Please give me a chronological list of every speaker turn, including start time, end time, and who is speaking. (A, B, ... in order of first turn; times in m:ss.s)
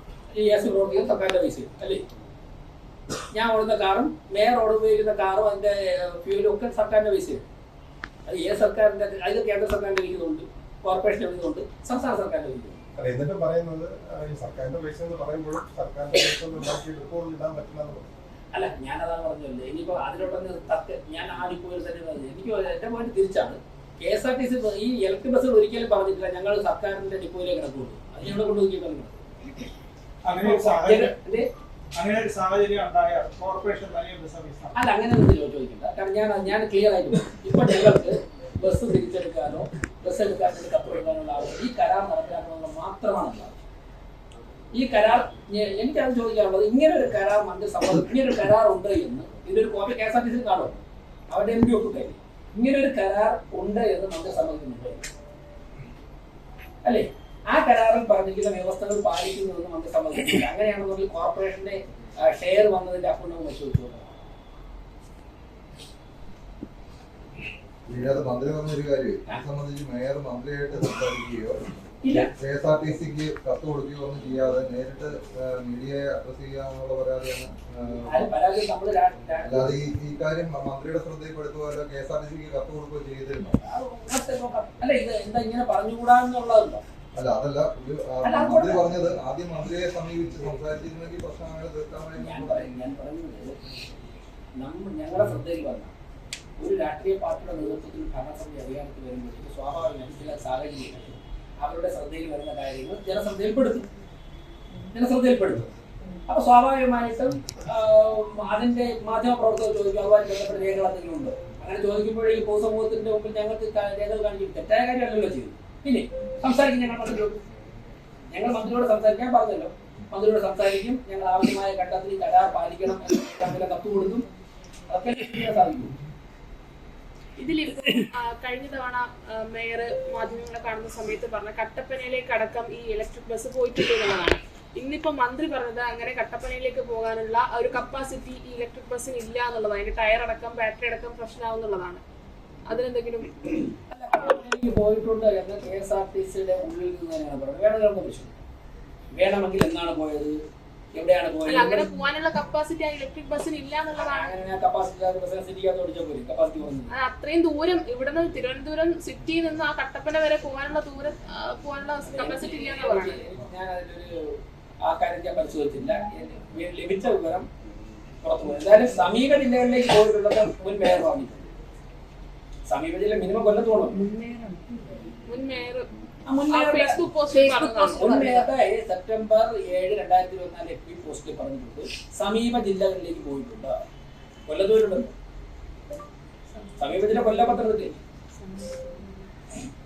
0:00.3-0:02.0 A
0:03.3-0:07.4 A
0:08.3-0:12.8 A
0:13.0-0:18.1 B
0:18.5-0:29.2 A
0:30.2-0:31.1 C
0:30.3-0:31.5 A
0:31.9-0:34.8 C
0:34.8-0:43.5 A
0:44.7-0:50.8 A
0:51.3-0:55.0 A
0:56.8-1:04.1 A
1:07.9-1:11.6 D
1:12.0-1:12.3 A
1:12.2-1:18.3 D
1:18.1-1:19.8 A
1:19.4-1:23.6 D
1:23.6-1:26.8 A
1:27.2-1:32.7 D
1:28.2-1:28.9 A
1:32.2-1:33.6 A
1:34.6-1:35.9 A
1:36.6-1:43.8 A
1:44.9-1:45.7 A
1:46.3-1:57.4 A
1:58.3-2:04.3 A
2:04.9-2:05.9 A
2:07.4-2:22.0 E
2:22.7-2:23.4 E
2:23.9-2:28.4 A
2:29.2-2:30.4 A
2:30.9-2:31.9 A
2:31.5-2:34.3 E
2:34.0-2:36.9 A
2:36.9-2:43.2 E
2:42.1-2:47.5 A
2:48.2-2:51.5 A
2:52.7-2:54.0 A
2:54.0-2:54.6 E
2:55.3-2:55.9 E
2:56.3-3:03.7 A
2:56.5-2:58.5 E
3:04.5-3:05.1 A
3:06.8-3:08.0 A
3:08.4-3:09.2 E